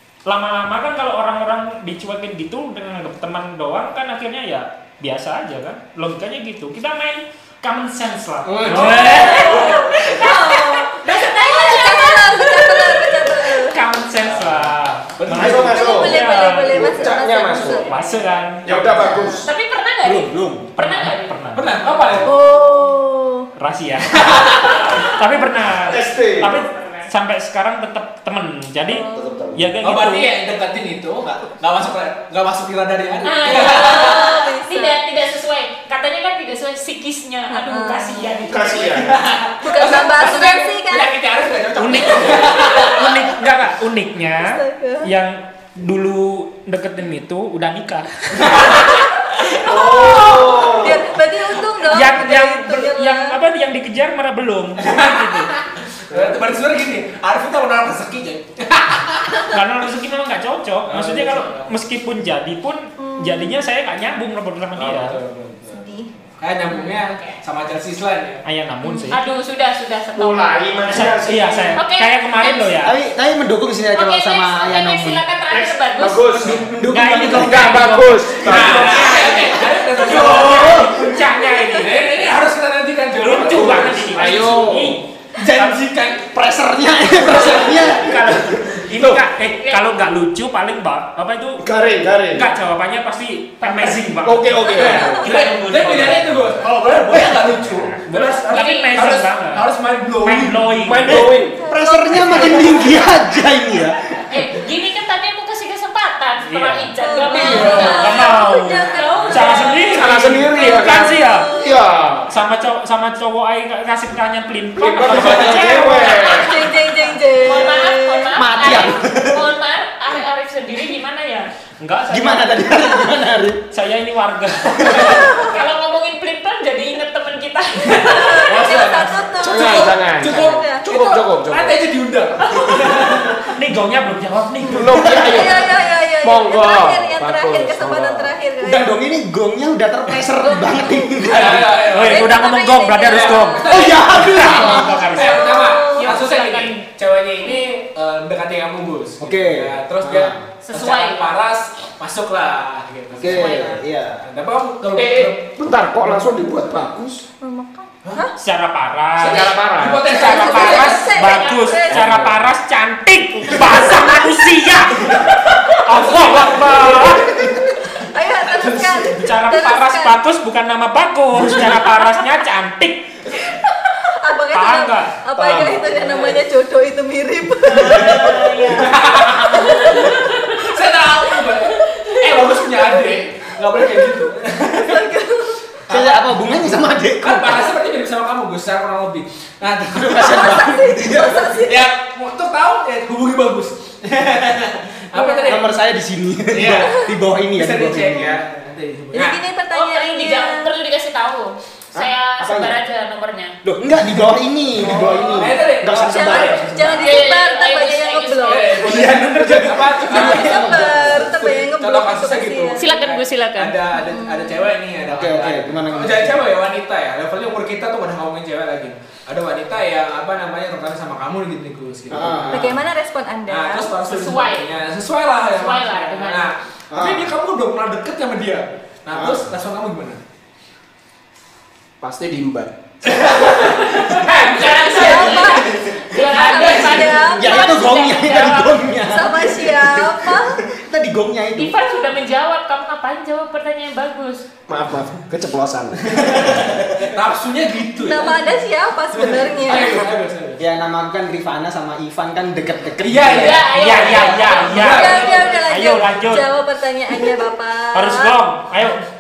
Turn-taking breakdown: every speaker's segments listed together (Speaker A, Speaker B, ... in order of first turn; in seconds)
Speaker A: 0.3-10.0, 13.6-17.0, 17.6-19.2, 20.7-22.3, 23.6-30.3, 41.8-49.0, 51.9-55.5, 59.4-65.2, 68.4-69.2, 70.9-73.0, 76.8-82.2, 83.2-85.8, 87.8-91.7, 92.3-99.7, 100.2-101.3, 106.5-111.5, 112.3-116.3, 121.8-122.9, 123.7-125.5, 133.4-134.9, 141.8-145.6, 158.4-167.4, 169.2-173.3, 174.5-175.2, 253.7-256.5, 257.9-259.0
Speaker B: 8.5-9.8, 15.2-17.9, 18.6-19.5, 25.8-26.6, 29.1-29.7, 38.5-39.3, 49.6-51.1, 56.1-56.5, 64.8-65.8, 70.2-71.8, 75.5-79.5, 80.2-80.9, 83.4-85.0, 88.9-89.3, 91.6-92.5, 94.2-95.3, 100.8-101.6, 109.8-112.3, 114.8-116.6, 129.4-131.8, 134.7-138.3, 154.9-157.2, 159.2-160.1, 161.9-162.4, 171.4-171.8, 175.3-176.4, 232.0-233.3, 244.7-246.8
Speaker C: 8.6-9.3, 14.2-15.7, 21.6-22.4, 24.2-24.9, 29.8-34.4, 38.8-43.1, 48.4-48.9, 54.8-59.5, 60.9-61.7, 66.4-68.4, 78.4-81.2, 81.7-84.6, 85.4-86.3, 87.1-87.9, 94.7-100.7, 107.4-108.0, 128.2-133.5, 141.2-142.3, 143.0-155.5, 156.0-156.7, 159.2-161.1, 165.0-165.3, 165.9-169.2, 175.9-176.4, 178.8-185.1, 185.9-186.3, 187.2-190.7, 191.7-195.7, 196.5-199.4, 204.8-207.1, 208.5-222.8, 223.5-230.2, 233.1-237.2, 246.1-248.6, 249.1-250.6, 253.0-255.6
Speaker D: 8.9-13.1, 19.4-22.3, 24.7-25.1, 26.4-27.1, 33.2-39.0, 42.4-42.9, 66.7-67.4, 69.1-71.2, 71.8-72.8, 73.9-76.4, 89.6-90.0, 98.5-99.2, 104.3-110.0, 115.8-116.5, 117.4-121.5, 125.3-128.6, 145.9-146.9, 150.7-151.3, 153.3-153.8, 161.3-161.6, 178.0-180.6, 199.7-203.6, 207.0-209.1, 212.8-213.8, 224.1-224.7, 225.6-226.5, 233.6-239.0, 241.6-244.5, 253.4-255.6
Speaker E: 9.3-13.8, 15.5-17.9, 19.0-19.3, 22.2-23.5, 28.9-29.4, 33.4-35.0, 37.5-38.5, 39.6-41.1, 44.4-45.1, 49.6-53.4, 63.0-63.6, 65.7-66.1, 68.8-69.2, 94.8-95.4, 101.5-103.4, 107.0-111.8, 116.2-118.4, 125.0-125.5, 127.9-130.8, 134.7-138.9, 140.4-144.0, 144.6-146.1, 157.4-158.3, 160.0-162.3, 163.7-164.3, 168.0-170.2, 174.0-180.3, 182.1-182.9, 184.7-185.6, 190.2-191.8, 195.1-195.6, 196.7-197.1, 199.1-200.7, 204.8-209.1, 210.1-213.0, 213.9-214.7, 222.5-223.9, 234.9-238.0, 239.1-240.6, 248.0-250.1, 254.8-258.4
Speaker F: 20.0-20.7, 72.8-75.2, 76.3-77.9, 86.3-88.2, 101.1-104.0, 118.3-119.5, 122.1-123.6, 124.8-125.2, 138.6-141.9, 143.7-145.1, 149.2-150.4, 153.2-154.2, 185.9-187.7, 189.9-191.9, 195.5-198.4, 201.9-202.8, 203.6-207.2, 208.8-211.4, 215.1-216.5, 222.1-222.8, 226.9-227.3, 229.1-229.5, 237.2-241.8, 250.6-253.8